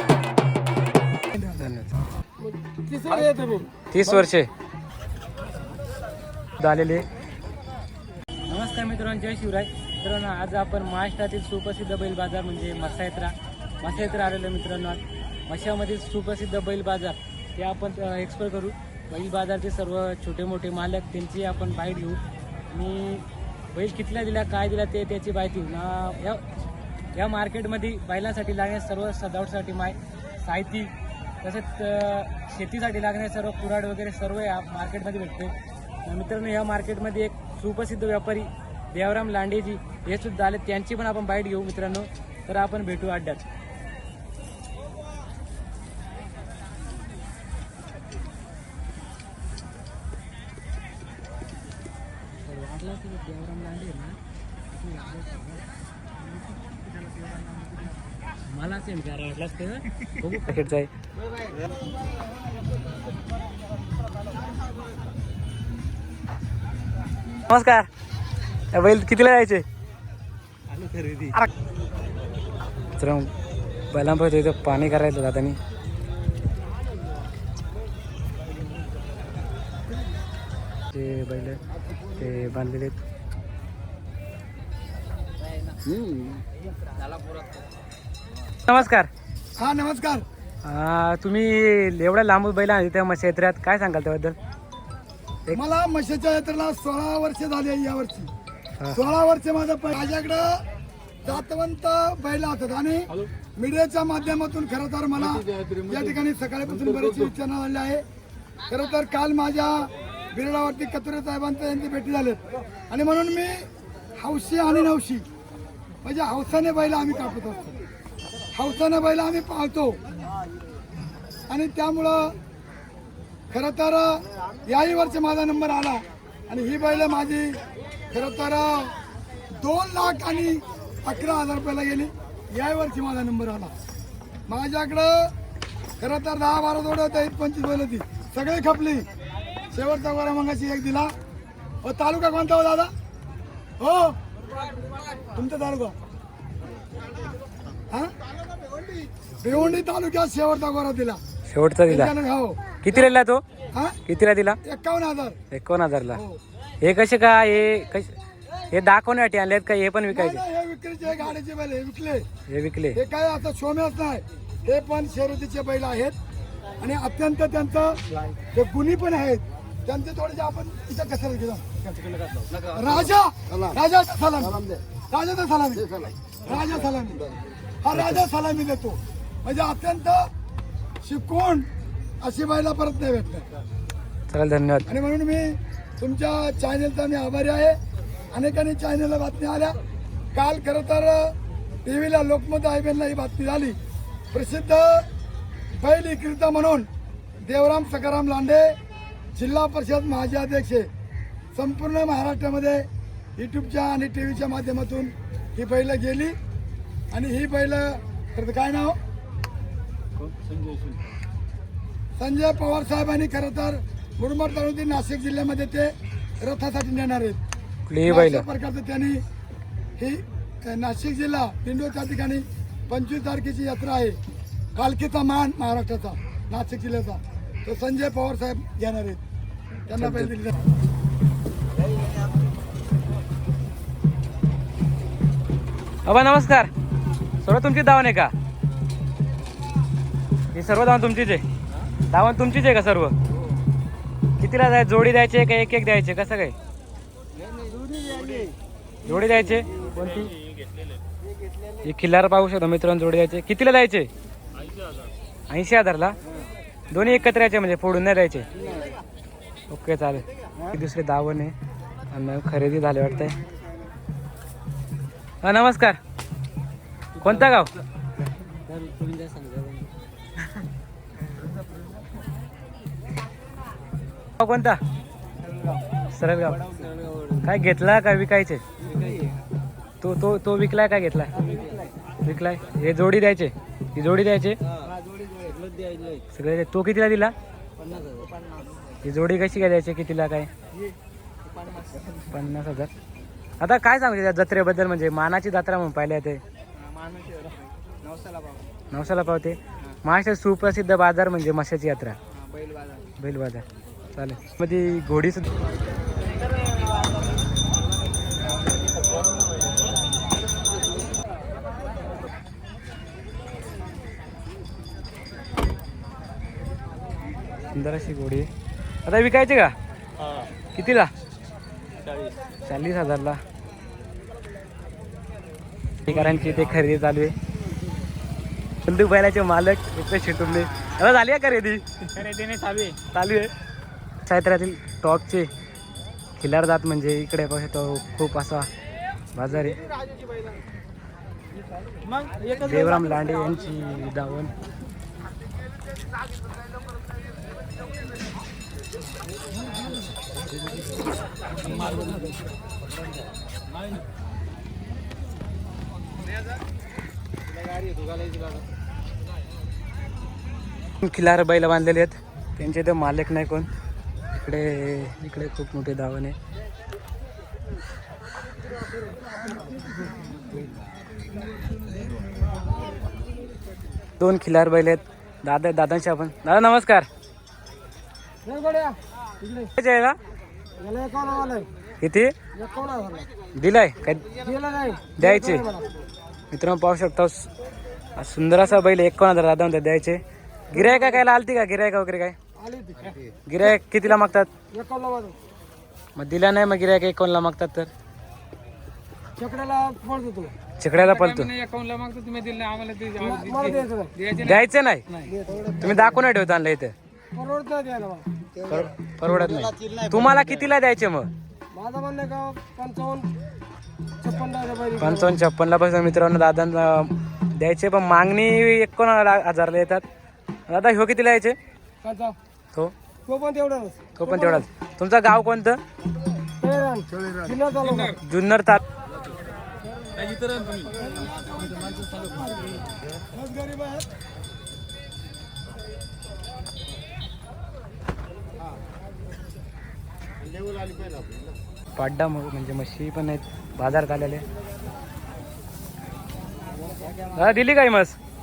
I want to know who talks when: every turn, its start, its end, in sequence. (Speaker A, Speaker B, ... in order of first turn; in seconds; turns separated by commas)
Speaker A: 1.4-1.9, Speaker B: 2.4-3.7, Speaker A: 3.9-4.5, Speaker A: 6.6-7.1, Speaker A: 8.5-26.4, Speaker A: 27.1-43.5, Speaker A: 52.4-54.2, Speaker A: 54.7-55.6, Speaker A: 58.5-60.9, Speaker A: 67.5-67.9, Speaker A: 68.7-69.7, Speaker C: 70.7-71.3, Speaker A: 73.0-73.3, Speaker A: 73.9-75.6, Speaker A: 80.9-83.0, Speaker A: 85.8-86.4, Speaker C: 87.0-87.3, Speaker A: 88.6-89.1, Speaker D: 89.6-90.2, Speaker A: 90.6-94.4, Speaker D: 95.5-98.3, Speaker D: 98.9-100.7, Speaker D: 101.2-108.0, Speaker C: 105.3-106.0, Speaker D: 108.7-115.3, Speaker D: 116.0-117.7, Speaker D: 118.5-120.0, Speaker D: 121.5-122.4, Speaker D: 123.5-127.6, Speaker D: 128.1-129.0, Speaker D: 129.5-133.7, Speaker D: 134.5-135.3, Speaker D: 136.0-139.1, Speaker D: 139.7-141.2, Speaker D: 141.8-142.9, Speaker D: 143.8-144.2, Speaker D: 145.3-145.9, Speaker D: 149.4-151.2, Speaker A: 151.5-152.1, Speaker D: 151.9-152.8, Speaker A: 152.8-153.4, Speaker D: 153.7-154.0, Speaker A: 154.1-154.6, Speaker D: 154.6-155.4, Speaker A: 155.5-156.2, Speaker D: 156.1-156.4, Speaker A: 156.8-158.1, Speaker A: 158.7-160.4, Speaker D: 160.1-162.3, Speaker A: 162.5-163.0, Speaker D: 162.9-166.2, Speaker D: 166.8-171.8, Speaker C: 171.9-172.8, Speaker D: 172.7-180.3, Speaker A: 177.9-178.2, Speaker D: 181.0-181.7, Speaker D: 182.2-183.5, Speaker A: 184.3-184.9, Speaker D: 184.9-187.8, Speaker D: 188.3-189.8, Speaker D: 190.3-193.8, Speaker D: 194.3-195.1, Speaker D: 195.8-196.9, Speaker D: 197.4-198.8, Speaker D: 199.3-200.9, Speaker D: 201.6-206.4, Speaker D: 207.1-209.0, Speaker C: 210.2-211.0, Speaker D: 212.2-217.4, Speaker A: 217.9-218.4, Speaker D: 218.0-219.2, Speaker D: 220.0-224.2, Speaker D: 224.8-229.2, Speaker D: 229.9-230.6, Speaker A: 229.9-230.4, Speaker A: 236.1-236.7, Speaker A: 237.4-238.3, Speaker A: 240.5-241.4, Speaker A: 242.1-243.2, Speaker A: 244.4-246.6, Speaker B: 247.5-248.5, Speaker A: 249.1-250.3, Speaker A: 251.8-254.1, Speaker A: 255.5-256.2, Speaker A: 256.9-258.5, Speaker A: 259.7-261.5, Speaker A: 262.1-263.4, Speaker A: 265.4-266.0, Speaker C: 267.2-267.6, Speaker A: 267.2-267.7, Speaker C: 268.7-269.9, Speaker A: 274.4-274.8, Speaker A: 276.1-276.8, Speaker C: 276.5-277.4, Speaker A: 277.4-278.6, Speaker C: 278.8-279.4, Speaker A: 280.0-281.4, Speaker C: 281.4-281.8, Speaker A: 282.2-284.6, Speaker C: 284.7-286.2, Speaker A: 286.3-287.3, Speaker C: 287.8-288.6, Speaker A: 289.0-290.5, Speaker C: 291.5-292.2, Speaker A: 292.3-292.9, Speaker A: 293.6-296.4, Speaker C: 296.8-298.6, Speaker A: 298.9-302.2, Speaker C: 302.4-303.0, Speaker A: 303.2-305.5, Speaker A: 317.7-318.5, Speaker A: 319.1-319.8, Speaker A: 320.8-321.1, Speaker A: 322.7-323.4, Speaker A: 326.1-327.4, Speaker A: 328.8-331.9, Speaker C: 332.1-333.0, Speaker A: 333.1-333.5, Speaker A: 334.2-335.5, Speaker A: 336.4-338.7, Speaker A: 339.4-339.8, Speaker A: 342.5-344.5, Speaker C: 351.6-352.3, Speaker C: 357.7-358.5, Speaker A: 361.0-363.7, Speaker A: 364.4-366.4, Speaker A: 374.2-377.1, Speaker B: 378.4-379.7, Speaker A: 379.8-380.2, Speaker B: 380.8-381.7, Speaker A: 382.0-382.3, Speaker B: 382.5-383.3, Speaker A: 383.5-384.2, Speaker B: 384.4-385.9, Speaker A: 385.2-385.6, Speaker A: 386.5-387.5, Speaker A: 388.2-392.4, Speaker B: 390.8-391.2, Speaker B: 392.6-393.2, Speaker A: 393.5-394.5, Speaker B: 394.7-395.4, Speaker A: 396.1-397.9, Speaker B: 399.4-400.5, Speaker A: 400.8-401.5, Speaker C: 401.3-404.5, Speaker B: 403.2-404.2, Speaker A: 404.4-405.1, Speaker B: 405.3-405.9, Speaker A: 405.8-406.9, Speaker B: 407.4-408.3, Speaker A: 408.6-411.3, Speaker B: 411.7-413.3, Speaker B: 414.2-415.3, Speaker A: 415.0-420.1, Speaker A: 420.7-421.6, Speaker B: 422.0-422.4, Speaker B: 423.3-424.5, Speaker A: 424.2-425.8, Speaker B: 426.6-428.2, Speaker A: 428.2-428.8, Speaker C: 430.1-431.0, Speaker D: 431.1-432.3, Speaker C: 432.1-432.5, Speaker D: 433.3-434.0, Speaker C: 440.7-441.2, Speaker A: 441.9-444.4, Speaker A: 447.3-448.2